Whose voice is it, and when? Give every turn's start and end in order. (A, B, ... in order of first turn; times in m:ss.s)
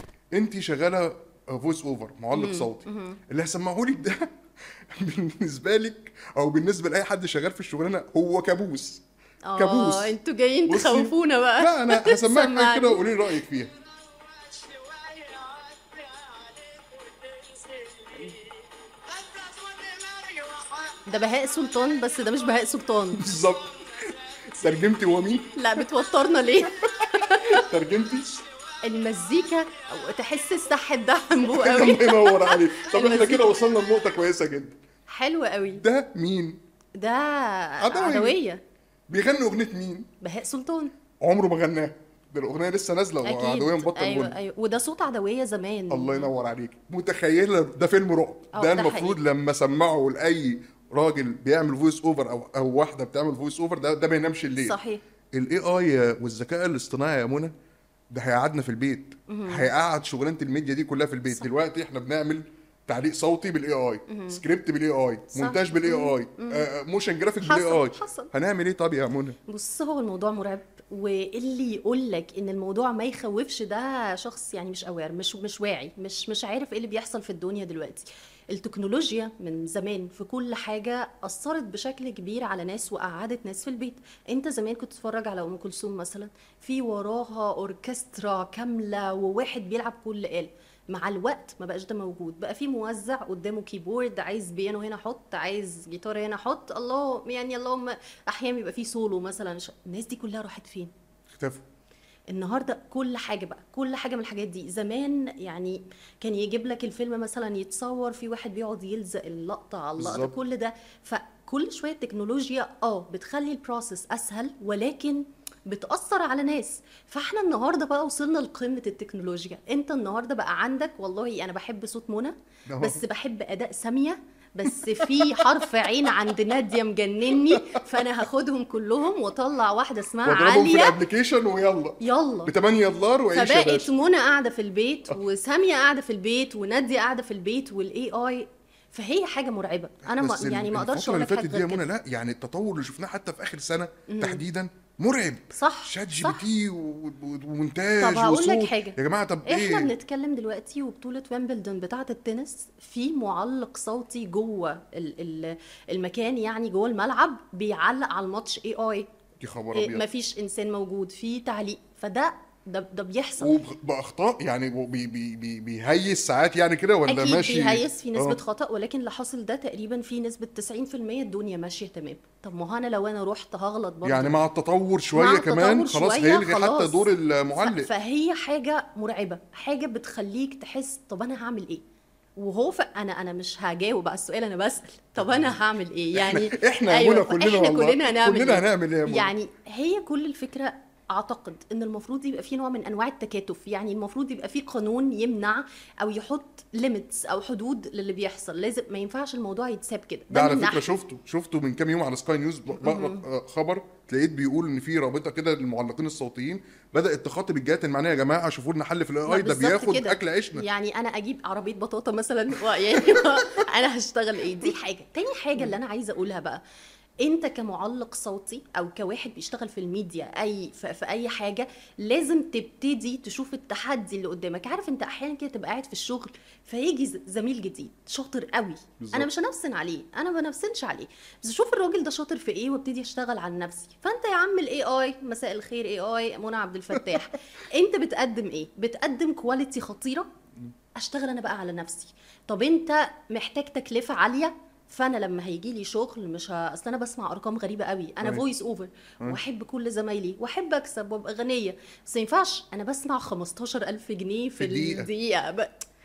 0:00.3-0:04.3 A
0:02.3-0:03.2 B
0:04.9-0:09.0 A
0:09.5-0:13.1 B
0:09.6-0:10.1 A
0:10.7-0:13.7 A
0:21.0-0:23.3 B
0:23.1-0:25.6 A
0:25.6-0:27.7 B
0:27.5-0:28.4 A
0:28.8-0:33.5 B
0:31.5-0:34.8 A
0:35.1-0:35.8 B
0:35.7-0:36.6 A
0:37.0-0:38.6 B
0:37.8-0:38.4 A
0:39.1-0:40.1 A
0:40.2-0:40.9 B
0:41.2-0:44.3 A
0:43.2-0:46.3 B
0:45.9-0:54.7 A
0:48.5-0:49.2 B
0:54.6-0:55.0 B
0:55.3-0:57.5 A
0:58.1-1:09.4 A
0:59.3-0:59.7 B
1:04.1-1:04.4 B
1:05.3-1:06.6 B
1:07.4-1:08.3 B
1:09.5-1:40.9 B
1:41.3-1:41.6 A
1:42.3-2:11.0 B
1:50.0-1:50.3 A
2:02.7-2:03.0 A
2:04.7-2:05.3 A
2:07.7-2:08.0 A
2:10.2-2:13.9 A
2:12.0-2:12.5 B
2:13.3-2:21.8 B
2:20.1-2:29.9 A
2:24.1-2:24.4 B
2:25.5-2:26.4 B
2:28.0-2:39.1 B
2:39.4-2:40.0 A
2:39.7-2:43.5 B
2:43.4-2:48.4 A
2:47.1-2:54.4 B
2:54.0-2:57.9 A
2:55.1-3:01.8 B
3:02.4-3:20.8 B
3:05.2-3:05.5 A
3:06.1-3:09.3 A
3:20.3-3:30.6 A
3:22.8-3:23.2 B
3:29.2-3:36.6 B
3:37.2-4:00.3 B
3:49.0-3:49.3 A
4:01.0-4:15.9 B
4:14.6-4:15.1 A